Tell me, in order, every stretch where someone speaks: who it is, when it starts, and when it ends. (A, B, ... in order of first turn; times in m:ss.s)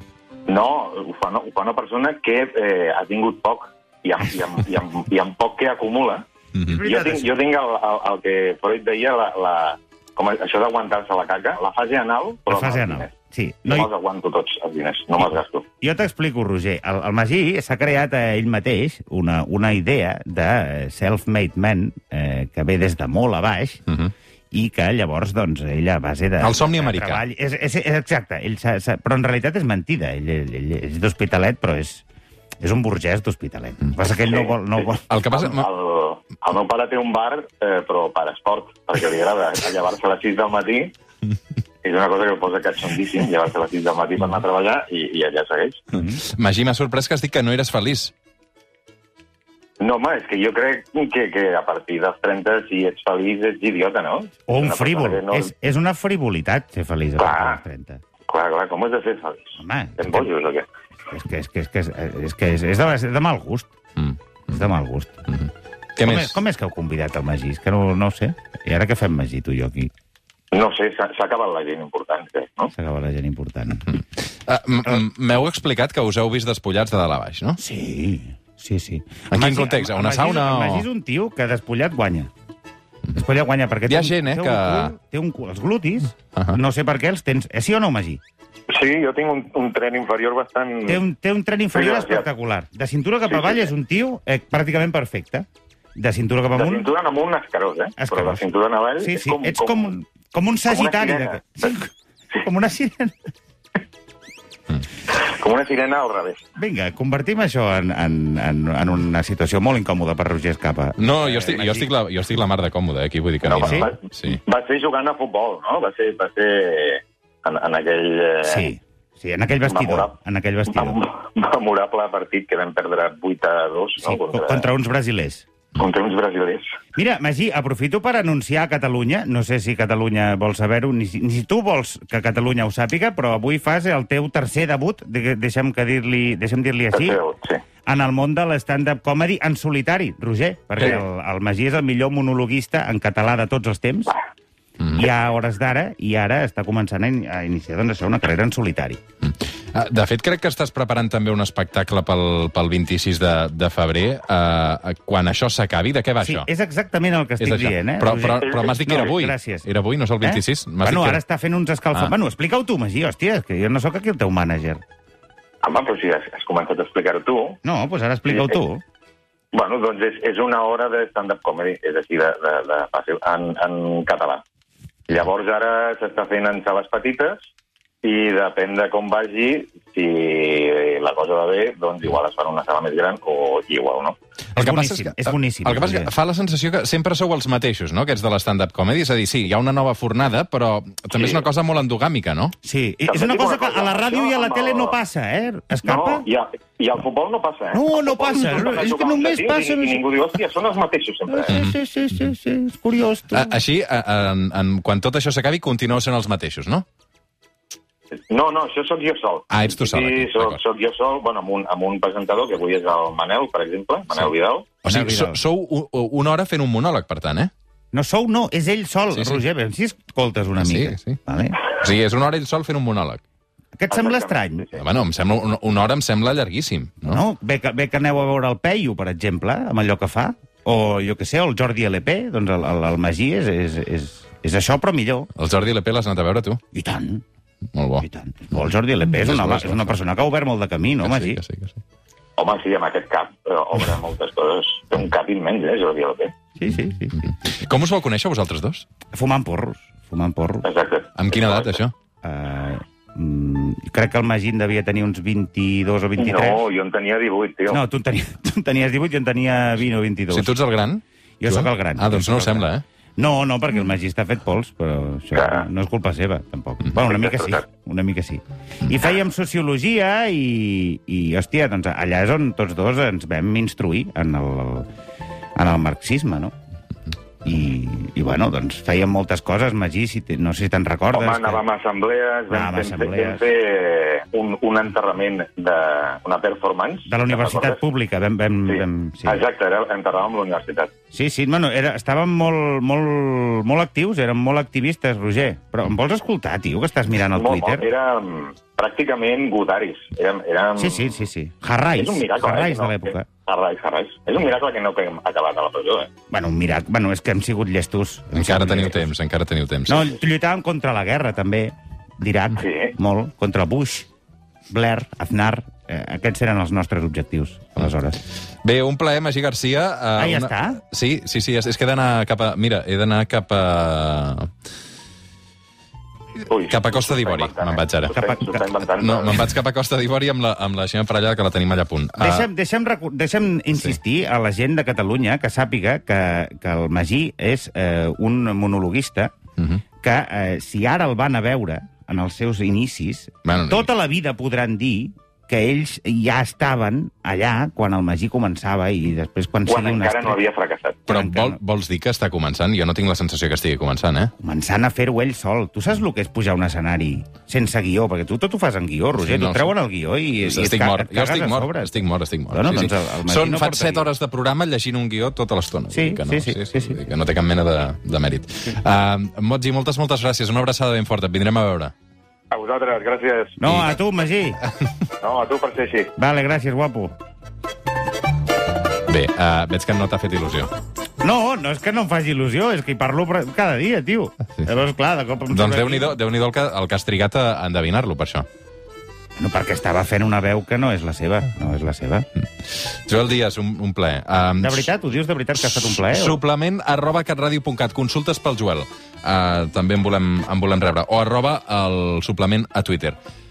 0:00.5-0:06.3 A
0:06.6-0:07.4 B
0:06.8-0:13.1 A
0:12.5-0:13.9 B
0:13.7-0:15.7 A
0:15.8-0:23.8 B
0:23.9-0:24.1 C
0:24.5-0:32.0 B
0:26.4-0:27.2 C
0:32.6-0:35.3 B
0:34.2-0:40.9 A
0:35.1-0:35.7 C
0:41.8-0:45.8 A
0:45.9-0:46.2 B
0:46.2-0:48.1 C
0:49.8-0:55.5 A
0:54.5-0:58.0 B
0:57.2-0:57.6 A
0:58.3-1:00.7 A
0:59.6-1:00.3 B
1:01.1-1:03.7 B
1:04.5-1:05.3 B
1:05.3-1:06.4 C
1:06.0-1:09.9 B
1:10.5-1:12.7 A
1:12.8-1:13.9 B
1:13.9-1:17.6 C
1:17.6-1:22.3 B
1:19.3-1:20.9 C
1:23.1-1:28.2 B
1:23.9-1:24.9 C
1:26.3-1:26.6 C
1:28.7-1:31.0 A
1:30.9-1:36.9 B
1:31.7-1:32.3 A
1:33.3-1:33.6 A
1:36.6-1:39.8 A
1:38.0-1:38.4 B
1:39.0-1:41.9 B
1:40.7-1:41.8 A
1:42.4-1:43.2 B
1:45.1-1:46.4 A
1:46.6-1:51.9 B
1:51.0-1:54.4 C
1:53.4-1:58.7 A
1:53.6-1:53.9 B
1:58.4-2:01.0 B
1:59.7-2:00.1 A
2:00.7-2:04.7 A
2:04.0-2:05.5 B
2:05.8-2:06.8 A
2:07.0-2:17.2 B
2:16.9-2:17.6 A
2:17.9-2:24.1 B
2:24.9-2:29.0 B
2:29.2-2:36.5 C
2:36.2-2:39.7 B
2:37.4-2:41.2 C
2:38.4-2:39.1 A
2:40.2-2:44.8 B
2:45.6-2:47.6 A
2:47.6-2:48.8 B
2:48.3-2:48.6 A
2:49.5-2:54.4 A
2:55.1-2:57.5 A
2:58.0-3:04.2 A
3:04.6-3:12.6 C
3:04.6-3:06.1 B
3:11.1-3:11.4 A
3:12.6-3:16.3 B
3:13.1-3:15.0 A
3:15.8-3:21.6 A
3:17.7-3:20.0 B
3:21.3-3:23.6 B
3:21.5-3:21.8 C
3:23.3-3:26.9 C
3:28.2-3:34.7 A
3:29.5-3:30.6 C
3:34.8-3:37.5 C
3:34.8-3:35.4 B
3:37.9-3:41.6 B
3:39.1-3:39.4 C
3:40.6-3:43.2 C
3:43.8-3:44.7 B
3:43.9-3:44.8 A
3:44.7-3:47.2 C
3:47.1-3:55.3 B
3:55.4-3:56.6 C
3:56.7-3:57.2 B
3:57.7-3:58.0 C
3:58.0-4:01.4 B
3:59.2-4:00.0 C
4:01.0-4:01.8 C
4:02.4-4:06.3 A
4:06.6-4:07.3 B
4:07.3-4:08.9 C
4:09.1-4:10.7 B
4:10.6-4:11.8 A
4:11.2-4:12.0 C
4:12.2-4:16.6 B
4:16.2-4:17.8 A
4:17.7-4:20.6 B
4:20.3-4:22.8 C
4:21.4-4:34.9 B
4:25.4-4:25.7 A
4:27.0-4:27.6 A
4:35.6-4:36.5 B
4:37.4-4:41.6 B
4:41.1-4:47.8 A
4:42.5-4:43.4 B
4:47.1-4:49.4 B
4:48.7-4:50.9 A
4:51.1-4:57.9 B
4:57.3-5:01.1 A
5:00.8-5:03.3 B
5:02.0-5:06.1 A
5:06.3-5:09.1 B
5:08.3-5:10.2 C
5:09.9-5:14.1 B
5:12.6-5:13.0 A
5:14.7-5:18.2 B
5:18.6-5:24.5 C
5:20.2-5:20.8 B
5:26.5-5:29.4 A
5:26.7-5:32.5 C
5:28.1-5:28.5 B
5:32.2-5:39.3 B
5:40.0-5:50.4 B
5:43.4-5:43.9 C
5:49.7-5:51.0 A
5:51.1-5:51.6 B
5:51.1-5:54.3 C
5:54.4-6:04.1 B
5:59.2-5:59.7 C
6:00.4-6:11.9 C
6:05.9-6:07.0 B
6:12.5-6:13.6 A
6:13.6-6:14.6 B
6:15.2-6:16.1 A
6:16.2-6:17.2 B
6:19.1-6:20.7 C
6:21.2-6:26.2 B
6:25.5-6:28.5 C
6:29.4-6:32.3 B
6:32.8-6:34.9 C
6:34.6-6:36.4 B
6:35.9-6:43.2 C